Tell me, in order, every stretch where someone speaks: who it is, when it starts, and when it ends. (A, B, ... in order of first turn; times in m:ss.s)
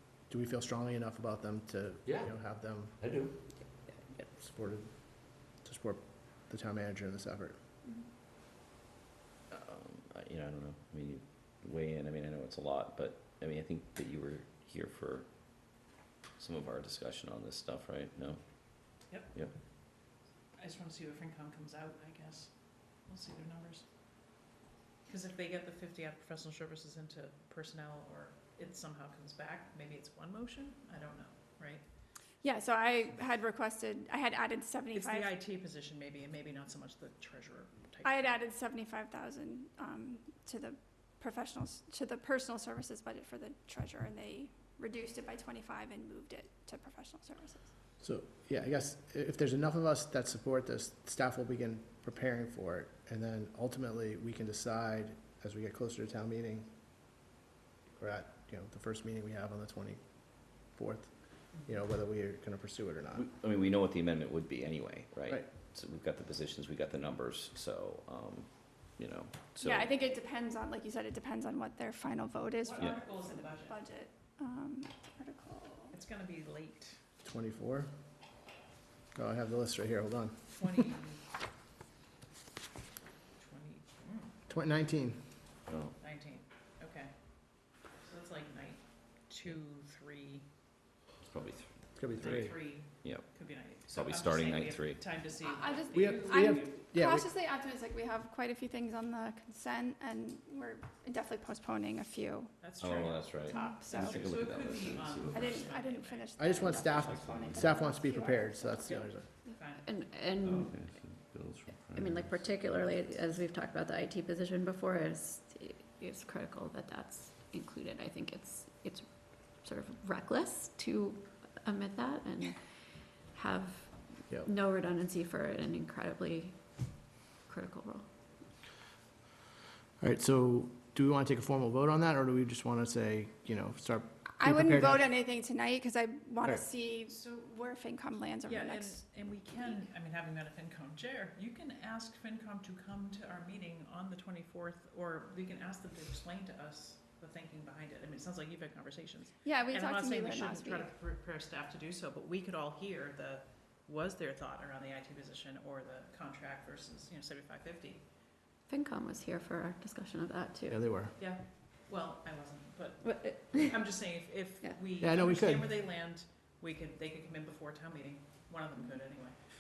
0:00.3-0:02.9 A
0:04.2-0:04.9 A
0:05.6-0:07.6 A
0:09.5-0:15.3 B
0:16.4-0:18.4 B
0:20.6-0:22.5 C
0:23.0-0:23.8 C
0:25.0-0:31.8 C
0:32.4-0:35.3 D
0:34.9-0:38.4 C
0:38.0-0:47.6 D
0:48.0-0:56.7 A
0:58.0-1:00.0 A
1:00.7-1:01.1 A
1:01.6-1:03.2 A
1:03.1-1:09.9 B
1:09.6-1:16.0 D
1:12.6-1:13.8 C
1:15.9-1:17.0 C
1:17.2-1:17.9 A
1:19.1-1:20.5 A
1:20.5-1:21.2 C
1:23.4-1:24.3 C
1:24.5-1:25.2 A
1:25.7-1:26.0 B
1:26.0-1:27.1 C
1:28.0-1:30.4 C
1:31.2-1:31.7 B
1:32.0-1:32.5 A
1:32.1-1:36.7 C
1:33.0-1:33.3 B
1:33.8-1:35.0 B
1:35.4-1:42.5 D
1:35.9-1:37.3 A
1:42.6-1:46.5 C
1:42.8-1:45.6 B
1:43.4-1:44.2 D
1:45.3-1:49.0 D
1:46.4-1:49.3 A
1:46.9-1:47.7 B
1:48.8-1:49.9 C
1:49.8-1:50.7 E
1:50.4-1:53.2 B
1:51.9-1:59.1 E
1:59.6-2:02.6 E
2:03.3-2:06.6 E
2:07.4-2:08.0 E
2:10.0-2:15.1 A
2:14.4-2:19.0 D
2:17.1-2:17.4 C
2:18.4-2:38.0 C
2:29.4-2:30.9 D
2:38.7-2:40.8 E
2:40.7-2:41.1 A
2:41.2-2:49.4 C
2:43.1-2:43.8 E
2:45.0-2:45.7 A